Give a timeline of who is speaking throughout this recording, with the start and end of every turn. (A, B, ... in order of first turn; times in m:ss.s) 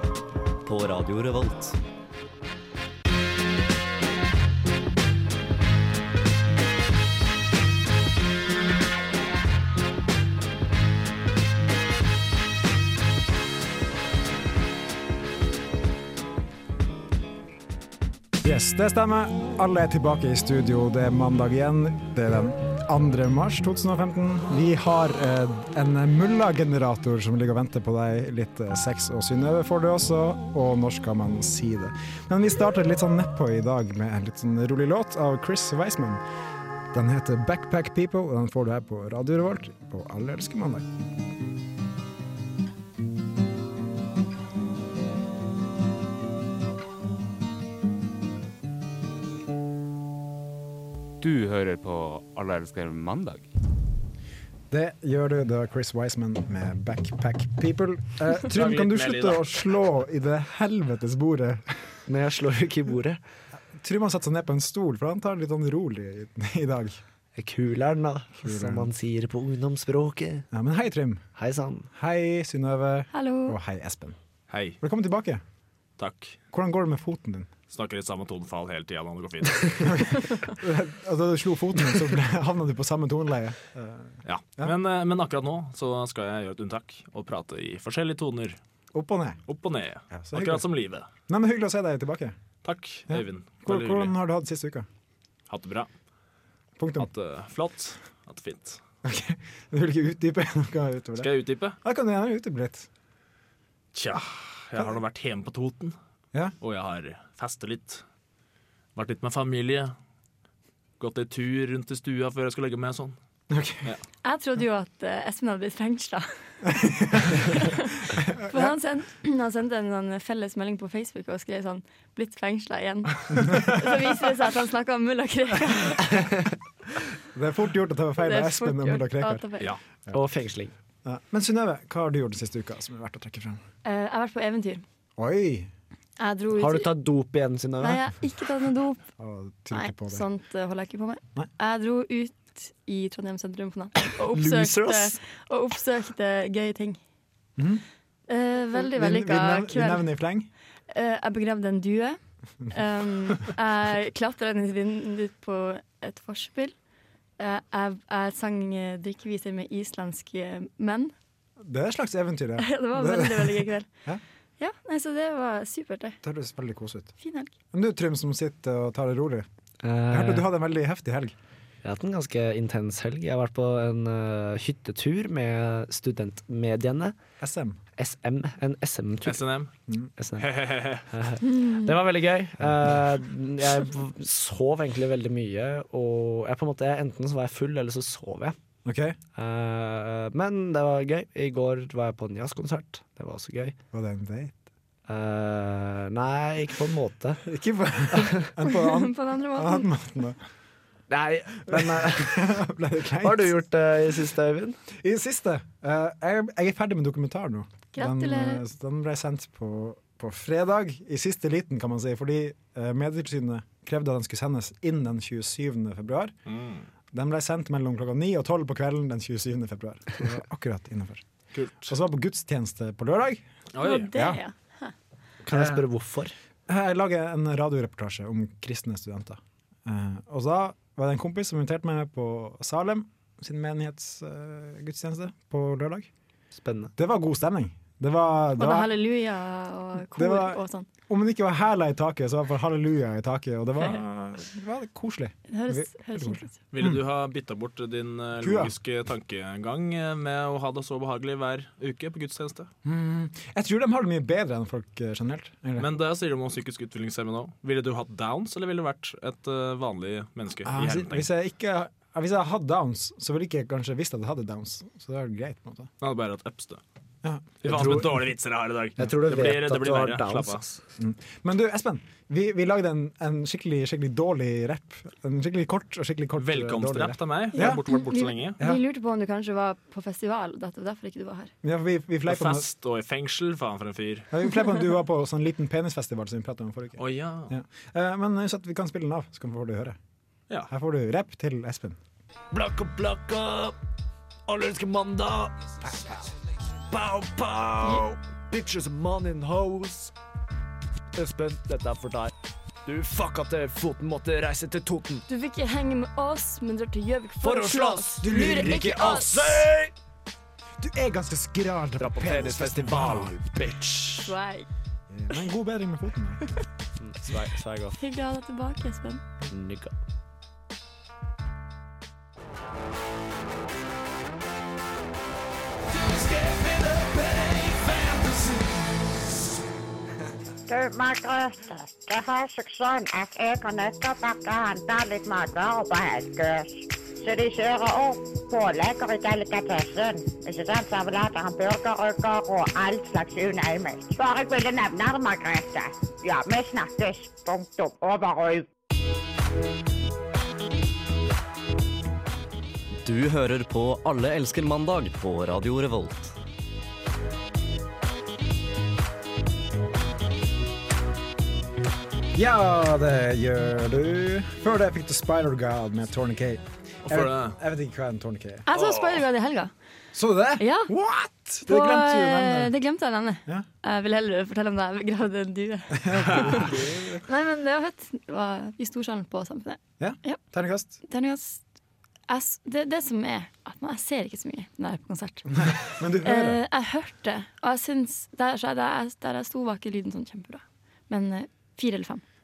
0:00.6-0:01.8 A
0:18.4-0:36.2 B
0:36.9-0:40.9 B
0:51.2-0:53.4 C
0:54.7-1:02.0 B
0:58.4-0:59.5 D
1:02.1-1:03.2 E
1:03.7-1:07.0 B
1:07.4-1:10.4 E
1:08.4-1:08.9 B
1:10.5-1:11.3 B
1:11.4-1:11.9 E
1:11.9-1:14.2 B
1:13.1-1:13.6 F
1:14.5-1:14.8 D
1:14.8-1:15.4 B
1:16.0-1:16.4 D
1:16.5-1:17.5 B
1:17.7-1:20.2 D
1:20.0-1:24.7 B
1:24.2-1:28.6 D
1:28.9-1:29.4 B
1:29.5-1:31.1 D
1:30.1-1:30.6 B
1:31.3-1:32.4 B
1:32.6-1:34.1 D
1:33.1-1:34.9 B
1:35.5-1:35.9 D
1:36.8-1:37.1 B
1:37.0-1:38.8 D
1:39.0-1:41.3 B
1:41.2-1:41.8 D
1:41.8-1:42.9 B
1:43.9-1:45.9 D
1:46.6-1:48.0 D
1:49.0-1:49.9 D
1:51.0-1:53.1 D
1:53.5-1:53.9 B
1:54.2-2:06.0 F
1:56.8-1:58.8 B
2:03.4-2:03.9 B
2:07.3-2:09.4 B
2:08.2-2:09.7 F
2:10.1-2:10.7 E
2:11.0-2:13.6 B
2:13.8-2:14.8 F
2:15.2-2:15.7 B
2:16.2-2:16.9 F
2:16.6-2:18.0 E
2:17.8-2:19.0 F
2:19.2-2:20.2 B
2:19.7-2:27.0 F
2:24.3-2:25.2 E
2:27.6-2:27.8 B
2:28.3-2:30.1 F
2:28.9-2:30.5 B
2:30.9-2:36.7 F
2:37.4-2:41.1 F
2:41.6-2:44.2 B
2:42.6-2:43.9 F
2:44.6-2:46.2 F
2:46.2-2:47.1 B
2:47.2-2:47.5 F
2:47.7-2:49.4 B
2:49.8-2:50.4 E
2:50.1-2:51.3 B
2:51.8-2:57.1 E
2:57.4-2:57.8 B
2:58.0-2:59.4 E
2:59.2-2:59.7 D
3:00.2-3:08.5 E
3:00.4-3:01.1 D
3:08.8-3:09.2 B
3:09.4-3:13.8 E
3:13.9-3:14.6 B
3:15.1-3:17.4 E
3:17.4-3:20.4 B
3:18.2-3:18.4 E
3:18.6-3:19.9 F
3:21.1-3:22.3 E
3:21.7-3:23.6 B
3:23.2-3:24.8 E
3:25.0-3:36.3 B
3:27.9-3:28.6 F
3:36.5-3:36.8 D
3:37.1-3:41.2 B
3:41.5-3:41.9 D
3:41.8-3:43.4 B
3:43.7-3:44.1 D
3:43.8-3:44.9 F
3:44.1-3:44.4 B
3:45.4-3:46.3 E
3:45.5-3:45.8 B
3:46.7-3:56.1 B
3:56.5-3:56.9 E
3:57.0-3:58.9 B
3:58.6-4:00.8 F
4:00.1-4:07.0 B
4:05.5-4:06.5 F
4:06.7-4:12.7 D
4:08.4-4:08.7 B
4:12.8-4:15.9 B
4:15.8-4:21.3 D
4:20.6-4:25.9 B
4:26.0-4:26.8 D
4:27.2-4:28.2 B
4:27.6-4:30.6 D
4:27.6-4:28.2 E
4:29.0-4:30.8 E
4:31.0-4:37.8 B
4:36.4-4:38.6 D
4:37.5-4:41.5 F
4:41.6-4:42.6 B
4:42.2-4:44.3 D
4:44.3-4:50.0 B
4:47.0-4:47.5 D
4:50.7-4:52.0 B
4:52.5-4:53.7 E
4:54.5-4:56.2 E
4:56.9-5:00.1 E
5:01.1-5:02.3 E
5:02.8-5:05.2 E
5:05.3-5:09.5 F
5:07.4-5:09.9 E
5:08.2-5:09.5 B
5:10.8-5:13.4 B
5:12.0-5:14.3 E
5:14.2-5:14.7 F
5:15.1-5:16.4 B
5:17.0-5:18.0 E
5:18.0-5:19.2 F
5:19.5-5:19.9 E
5:27.4-5:28.4 E
5:30.7-5:48.7 G
5:53.0-5:56.3 A
6:02.3-6:08.6 B
6:07.0-6:07.5 D
6:08.7-6:09.7 F
6:08.7-6:09.2 D
6:10.1-6:12.7 B
6:10.6-6:10.9 F
6:11.7-6:16.7 F
6:15.9-6:17.2 B
6:16.3-6:17.1 D
6:17.2-6:20.4 F
6:20.0-6:20.9 B
6:21.1-6:21.6 F
6:22.3-6:32.2 F
6:25.6-6:26.6 B